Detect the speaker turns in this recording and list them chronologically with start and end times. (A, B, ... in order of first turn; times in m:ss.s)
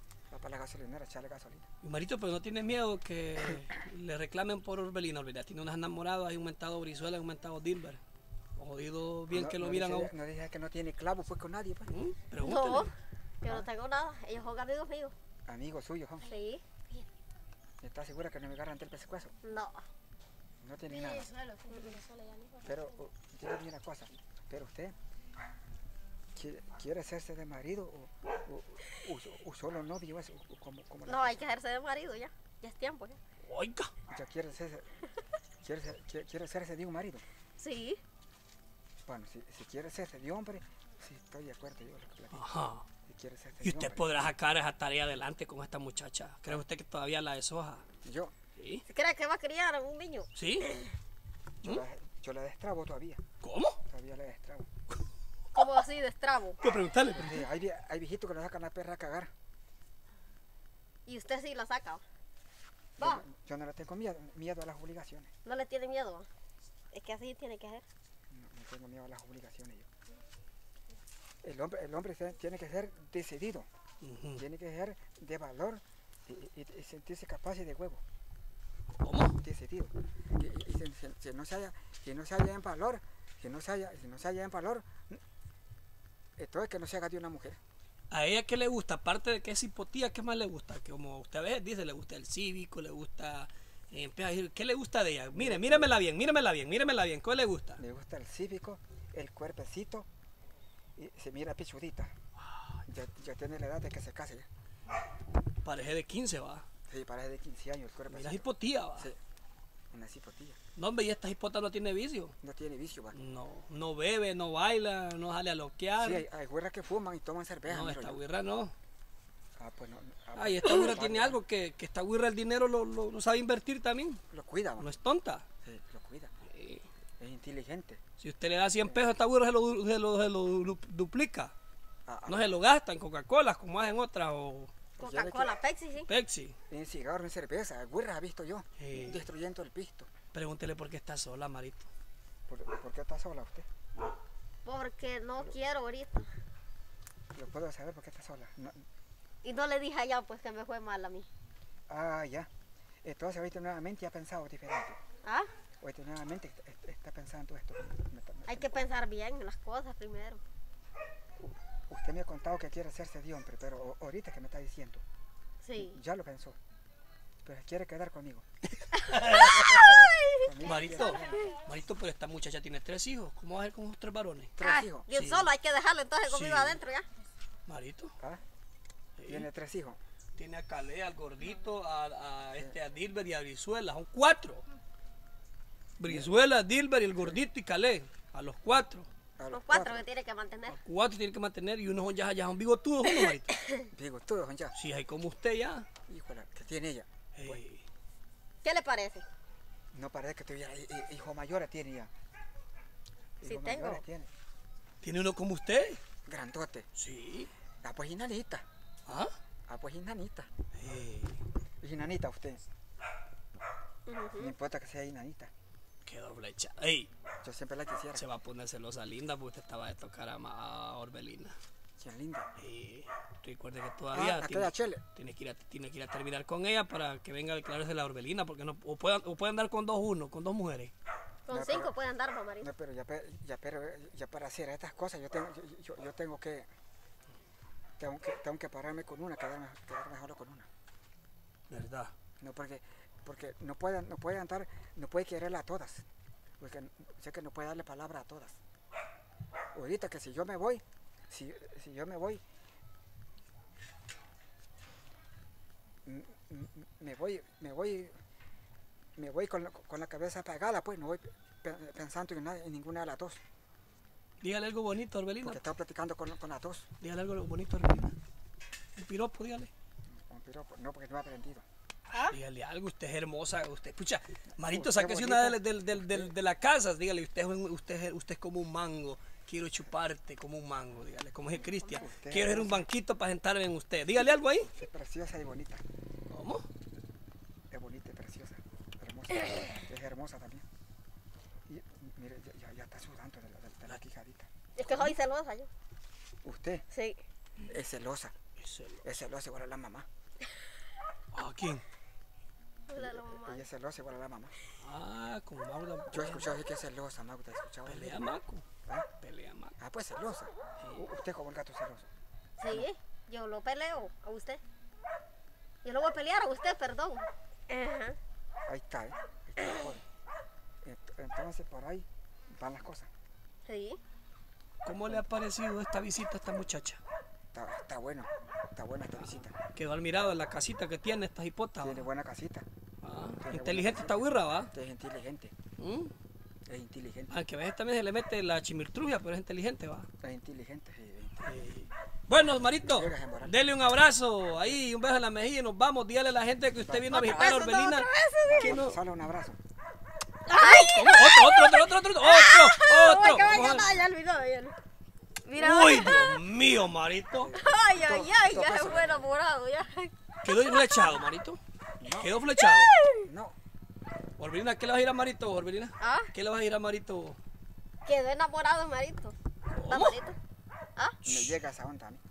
0:00.3-0:01.7 A
0:01.8-0:08.0 B
0:08.6-0:10.1 B
0:09.3-0:11.9 A
0:11.9-0:12.9 B
0:12.4-0:15.1 C
0:15.5-0:16.3 A
0:16.2-0:17.0 C
0:17.8-0:19.3 A
0:19.4-0:19.9 C
0:20.6-0:21.3 A
0:21.0-0:22.6 C
0:22.6-0:25.0 A
0:26.4-0:31.5 A
0:31.1-0:33.2 C
0:33.4-0:33.9 B
0:34.1-0:35.0 A
0:35.6-0:37.2 A
0:37.6-0:38.0 C
0:39.1-0:42.4 A
0:42.3-0:42.9 B
0:43.1-0:44.1 A
0:43.6-0:47.8 B
0:48.0-0:48.3 A
0:48.6-0:48.8 B
0:48.9-0:50.8 C
0:50.4-0:50.8 B
0:51.6-0:53.2 A
0:53.4-0:53.8 B
0:53.9-0:54.7 A
0:55.5-0:56.6 C
0:56.6-0:57.5 B
0:57.1-0:59.3 A
1:01.1-1:02.0 C
1:03.0-1:05.3 A
1:03.0-1:03.2 C
1:05.4-1:06.3 C
1:06.9-1:07.8 C
1:08.3-1:09.9 A
1:11.4-1:13.7 A
1:14.0-1:14.4 B
1:14.4-1:18.0 A
1:19.0-1:19.4 B
1:19.4-1:25.2 A
1:26.4-1:27.6 A
1:28.1-1:37.8 B
1:35.3-1:36.0 A
1:37.8-1:40.1 A
1:41.0-1:42.1 A
1:42.9-1:44.5 A
1:45.6-1:46.6 B
1:46.9-1:49.2 A
1:48.1-1:49.1 B
1:49.9-1:50.6 A
1:50.8-1:52.4 B
1:52.4-1:53.2 A
1:53.1-1:56.2 B
1:56.0-1:58.2 A
1:57.7-1:58.7 B
1:59.6-2:01.4 A
2:00.4-2:04.2 B
2:04.3-2:04.9 A
2:04.8-2:05.4 B
2:05.6-2:06.3 A
2:06.5-2:06.8 B
2:07.2-2:08.0 A
2:08.2-2:11.5 B
2:08.8-2:09.1 A
2:12.1-2:12.4 A
2:12.3-2:14.7 B
2:15.0-2:16.1 C
2:15.0-2:15.5 A
2:16.1-2:16.6 B
2:16.7-2:20.1 A
2:18.8-2:19.3 B
2:20.3-2:21.9 B
2:22.5-2:23.7 A
2:24.6-2:26.3 C
2:27.3-2:28.8 A
2:29.4-2:31.3 C
2:31.9-2:32.5 A
2:33.0-2:35.0 A
2:35.2-2:35.5 C
2:35.8-2:38.9 A
2:38.5-2:40.4 C
2:41.4-2:45.0 A
2:45.6-2:46.0 C
2:45.8-2:46.6 A
2:47.4-2:48.4 A
2:48.8-2:50.0 B
2:49.0-2:51.6 C
2:49.8-2:51.5 A
2:50.6-2:54.5 B
2:54.6-2:55.1 A
2:54.6-2:57.1 C
2:55.1-2:55.5 B
2:56.2-2:56.8 B
2:57.7-2:58.1 B
2:59.2-2:59.5 B
2:59.3-3:00.0 A
3:00.4-3:04.7 B
3:06.0-3:09.1 B
3:06.0-3:06.4 A
3:07.1-3:07.4 A
3:09.4-3:10.1 A
3:09.5-3:10.8 C
3:10.7-3:13.5 B
3:13.9-3:14.8 A
3:14.8-3:15.9 B
3:16.1-3:17.6 A
3:17.4-3:17.8 B
3:18.6-3:19.2 C
3:19.9-3:22.1 A
3:23.4-3:24.3 A
3:23.4-3:24.0 C
3:25.0-3:26.0 B
3:26.3-3:26.9 A
3:27.0-3:27.5 B
3:27.8-3:28.6 A
3:29.1-3:29.3 B
3:29.7-3:30.5 A
3:30.8-3:31.4 B
3:31.8-3:32.6 A
3:34.1-3:34.6 C
3:34.4-3:35.5 A
3:36.0-3:37.1 B
3:37.4-3:38.2 A
3:38.2-3:41.6 B
3:42.0-3:42.5 A
3:42.6-3:50.9 B
3:44.1-3:45.0 A
3:51.5-3:52.7 C
3:51.5-3:51.9 A
3:52.6-3:56.7 A
3:58.0-4:00.7 A
4:01.7-4:02.1 B
4:02.4-4:06.1 A
4:06.6-4:08.6 A
4:09.7-4:12.4 A
4:16.0-4:18.2 A
4:19.2-4:23.4 A
4:24.4-4:25.6 B
4:25.4-4:26.9 A
4:27.0-4:28.2 B
4:29.0-4:29.7 B
4:30.1-4:31.6 A
4:32.1-4:44.7 B
4:34.6-4:36.3 A
4:41.9-4:42.9 A
4:44.7-4:45.8 A
4:46.3-4:46.6 B
4:47.7-4:50.6 A
4:49.4-4:49.8 C
4:51.7-4:55.1 A
4:54.8-4:55.7 C
4:56.4-4:56.9 A
4:56.9-4:57.2 C
4:57.6-4:58.3 A
4:58.6-4:59.0 B
4:59.0-5:00.1 A
5:01.3-5:01.8 B
5:02.9-5:03.6 C
5:02.9-5:04.6 A
5:04.8-5:06.6 B
5:06.1-5:08.3 A
5:07.9-5:08.6 B
5:09.2-5:09.8 B
5:09.8-5:12.1 A
5:12.6-5:14.6 C
5:15.8-5:18.2 C
5:18.7-5:20.0 A
5:19.6-5:19.8 C
5:20.8-5:23.1 A
5:23.7-5:24.0 C
5:24.8-5:27.0 B
5:27.5-5:29.6 A
5:29.2-5:32.1 B
5:31.8-5:32.7 A
5:33.0-5:34.7 B
5:33.4-5:35.5 A
5:35.8-5:36.1 B
5:36.7-5:37.4 A
5:37.3-5:40.1 B
5:40.2-5:41.6 A
5:41.4-5:49.0 B
5:42.8-5:43.6 A
5:46.8-5:47.6 A
5:47.1-5:48.8 C
5:48.5-5:49.6 A
5:50.5-5:54.0 B
5:50.5-5:54.8 C
5:55.4-5:56.4 C
5:55.6-5:57.5 B
5:57.4-5:59.3 A
5:57.6-6:00.9 C
6:00.4-6:02.9 B
6:02.0-6:02.4 A
6:02.6-6:03.3 C
6:03.2-6:03.6 A
6:04.4-6:07.4 B
6:06.0-6:06.3 C
6:08.0-6:09.4 C
6:09.7-6:10.2 B
6:09.9-6:10.4 C
6:11.2-6:11.6 B
6:11.2-6:12.2 A